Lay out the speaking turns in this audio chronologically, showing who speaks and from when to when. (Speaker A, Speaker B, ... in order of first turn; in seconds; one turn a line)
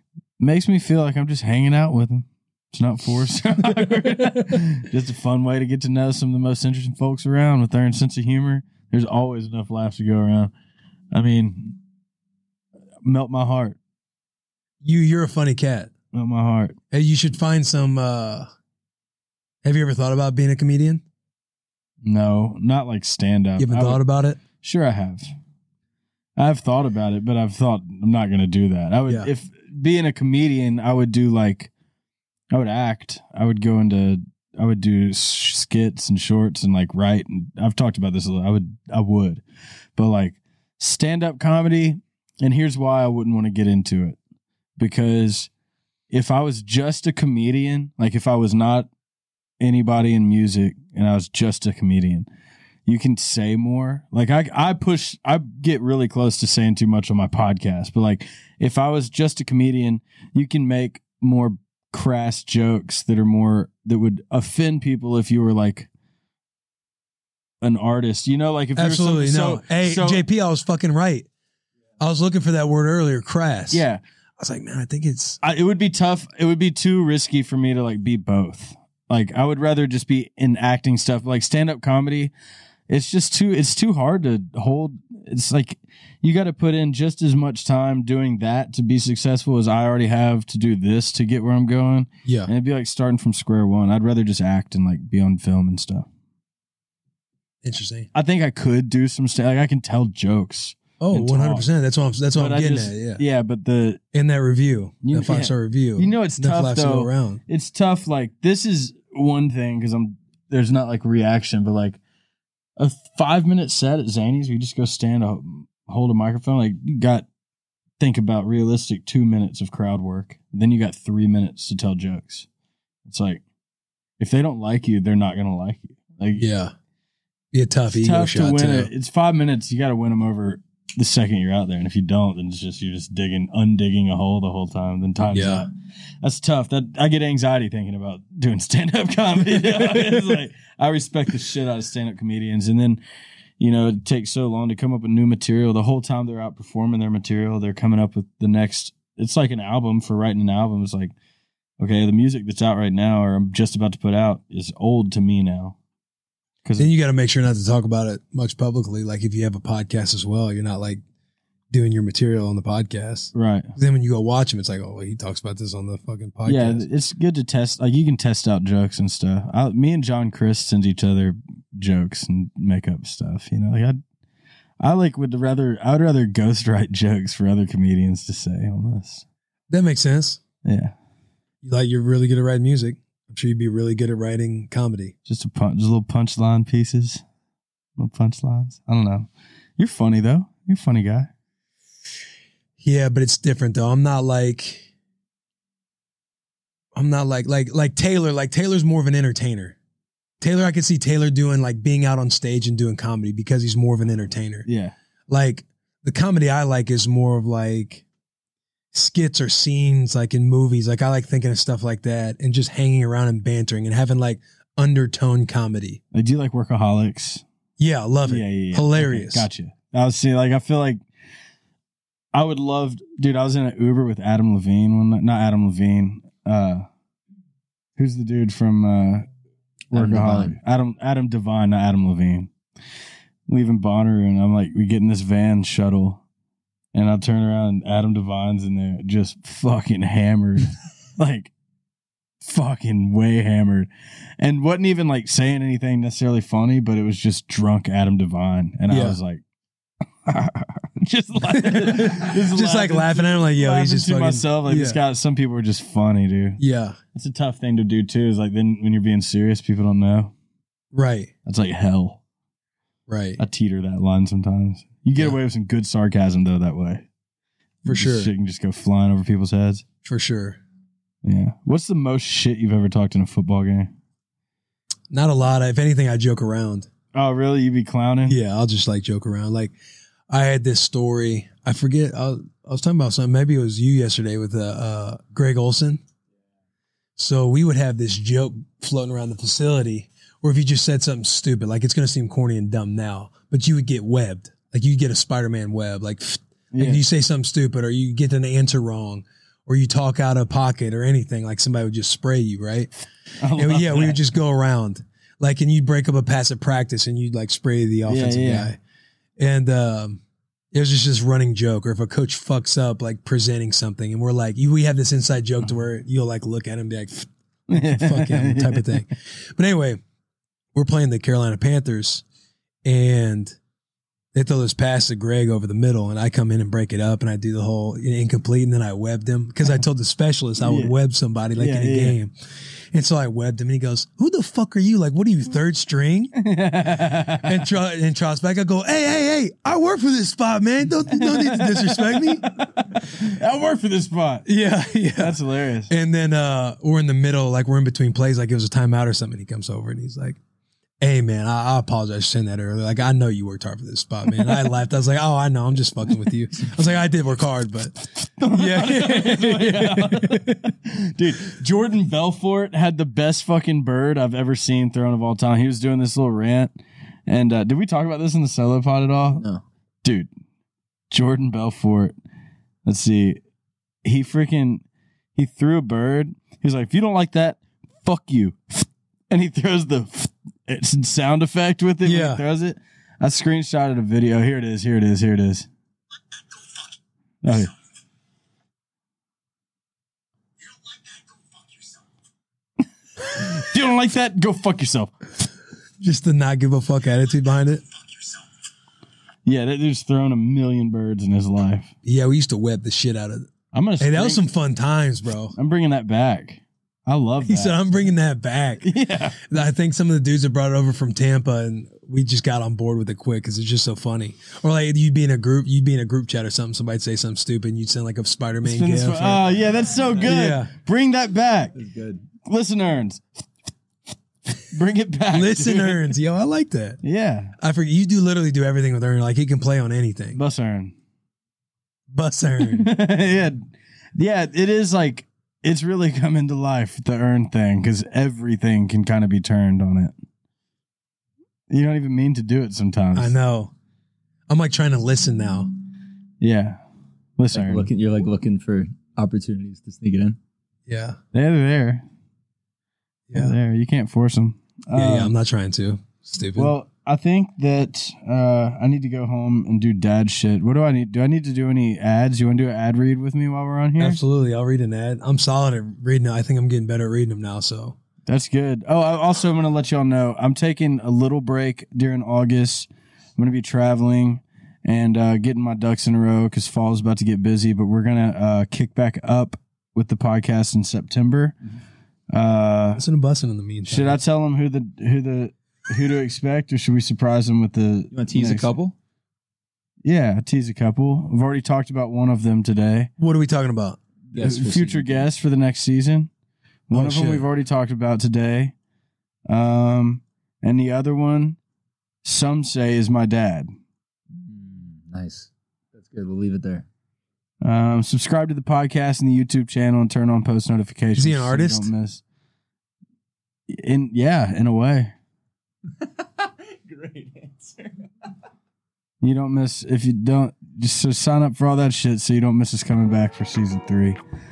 Speaker A: 0.4-10.5
Speaker A: 11.1-11.8
Speaker A: 13.0-13.8
Speaker B: 14.8-15.9
Speaker A: 16.1-16.8
Speaker B: 16.9-18.5
Speaker B: 19.6-21.0
Speaker A: 22.0-24.0
Speaker B: 23.6-24.4
Speaker A: 24.6-25.3
Speaker A: 26.4-31.7
Speaker A: 32.5-39.4
Speaker A: 40.0-44.2
Speaker A: 44.8-45.5
Speaker A: 46.1-48.9
Speaker A: 49.6-52.3
Speaker A: 52.9-65.9
Speaker A: 67.6-70.2
Speaker B: 68.8-71.3
Speaker B: 72.0-73.8
Speaker A: 73.7-74.0
Speaker B: 74.4-75.4
Speaker A: 75.4-82.3
Speaker A: 82.9-96.1
Speaker B: 92.2-92.5
Speaker B: 97.6-98.1
Speaker A: 98.1-101.7
Speaker B: 101.0-103.2
Speaker A: 102.3-104.0
Speaker B: 104.1-107.4
Speaker A: 105.0-112.0
Speaker A: 112.8-117.3
Speaker A: 118.0-122.5
Speaker A: 123.1-123.4
Speaker A: 124.2-126.5
Speaker B: 126.3-126.7
Speaker B: 127.5-128.9
Speaker A: 127.9-135.7
Speaker B: 135.3-135.7
Speaker A: 136.2-143.0
Speaker B: 139.4-140.4
Speaker A: 143.6-151.1
Speaker A: 151.8-155.8
Speaker A: 156.6-156.9
Speaker B: 156.8-161.0
Speaker B: 161.7-166.8
Speaker A: 163.3-163.7
Speaker A: 166.5-174.0
Speaker A: 174.8-179.2
Speaker B: 179.7-180.4
Speaker A: 180.6-180.9
Speaker B: 181.6-185.1
Speaker A: 185.3-187.2
Speaker A: 188.0-191.3
Speaker B: 192.8-194.9
Speaker B: 196.9-199.8
Speaker B: 200.4-204.7
Speaker A: 204.7-204.9
Speaker B: 205.3-208.1
Speaker B: 208.9-216.0
Speaker A: 216.1-217.4
Speaker B: 217.8-219.5
Speaker A: 218.2-221.0
Speaker A: 222.3-226.9
Speaker A: 228.0-229.3
Speaker A: 229.9-232.5
Speaker C: 229.9-230.6
Speaker A: 233.5-236.2
Speaker A: 236.9-241.5
Speaker A: 242.4-249.4
Speaker B: 248.9-249.2
Speaker A: 250.2-256.6
Speaker B: 251.5-255.0
Speaker B: 256.6-257.0
Speaker A: 257.1-260.3
Speaker B: 260.9-261.3
Speaker A: 261.4-262.2
Speaker B: 263.1-263.4
Speaker A: 263.4-267.1
Speaker B: 267.9-268.3
Speaker A: 267.9-269.9
Speaker B: 270.0-270.6
Speaker A: 271.2-273.9
Speaker B: 275.1-276.9
Speaker A: 277.1-278.4
Speaker B: 278.3-279.8
Speaker B: 280.3-286.0
Speaker B: 287.2-302.9
Speaker A: 296.7-297.0
Speaker A: 303.4-304.2
Speaker B: 303.6-308.8
Speaker A: 308.1-308.7
Speaker B: 309.4-310.2
Speaker B: 310.7-320.0
Speaker A: 317.7-319.0
Speaker B: 320.8-322.2
Speaker B: 322.9-323.6
Speaker B: 324.3-332.3
Speaker A: 330.6-330.9
Speaker A: 331.6-332.2
Speaker B: 332.9-336.3
Speaker A: 336.4-337.6
Speaker B: 337.4-342.6
Speaker A: 341.1-344.5
Speaker B: 344.5-350.4
Speaker A: 345.1-345.9
Speaker B: 351.0-358.0
Speaker A: 358.4-366.7
Speaker B: 358.5-360.7
Speaker A: 367.3-369.4
Speaker A: 371.1-372.1
Speaker A: 372.9-373.4
Speaker A: 374.0-374.8
Speaker A: 375.4-385.7
Speaker B: 382.0-382.4
Speaker A: 387.4-387.7
Speaker A: 393.2-395.1
Speaker B: 396.0-397.8
Speaker A: 399.4-401.9
Speaker B: 402.0-405.5
Speaker A: 403.7-404.4
Speaker A: 405.6-407.9
Speaker B: 407.4-419.5
Speaker A: 408.8-409.4
Speaker A: 418.6-421.8
Speaker B: 420.2-420.7
Speaker C: 421.8-422.2
Speaker A: 422.4-423.3
Speaker A: 424.6-426.0
Speaker B: 425.3-427.0
Speaker A: 427.0-427.5
Speaker B: 427.6-430.4
Speaker A: 430.3-430.9
Speaker B: 432.1-432.9
Speaker A: 432.6-440.1
Speaker A: 441.7-443.4
Speaker B: 443.1-443.7
Speaker B: 444.5-445.7
Speaker A: 446.4-446.8
Speaker A: 447.4-447.9
Speaker C: 447.5-450.4
Speaker B: 450.9-451.2
Speaker A: 451.3-452.0
Speaker B: 453.3-453.6
Speaker A: 453.3-455.3
Speaker B: 454.9-456.7
Speaker A: 456.6-464.2
Speaker B: 464.0-468.0
Speaker A: 468.3-481.6
Speaker A: 482.3-483.0
Speaker B: 483.0-484.2
Speaker A: 483.9-488.7
Speaker C: 488.1-488.9
Speaker A: 490.0-493.1
Speaker B: 493.2-494.0
Speaker C: 494.3-495.3
Speaker A: 494.4-496.3
Speaker A: 496.9-498.7
Speaker B: 496.9-497.5
Speaker A: 499.5-501.6
Speaker A: 502.2-503.7
Speaker C: 504.3-506.9
Speaker A: 507.6-512.2
Speaker B: 511.1-511.9
Speaker A: 513.7-515.1
Speaker C: 516.0-518.1
Speaker A: 519.2-524.2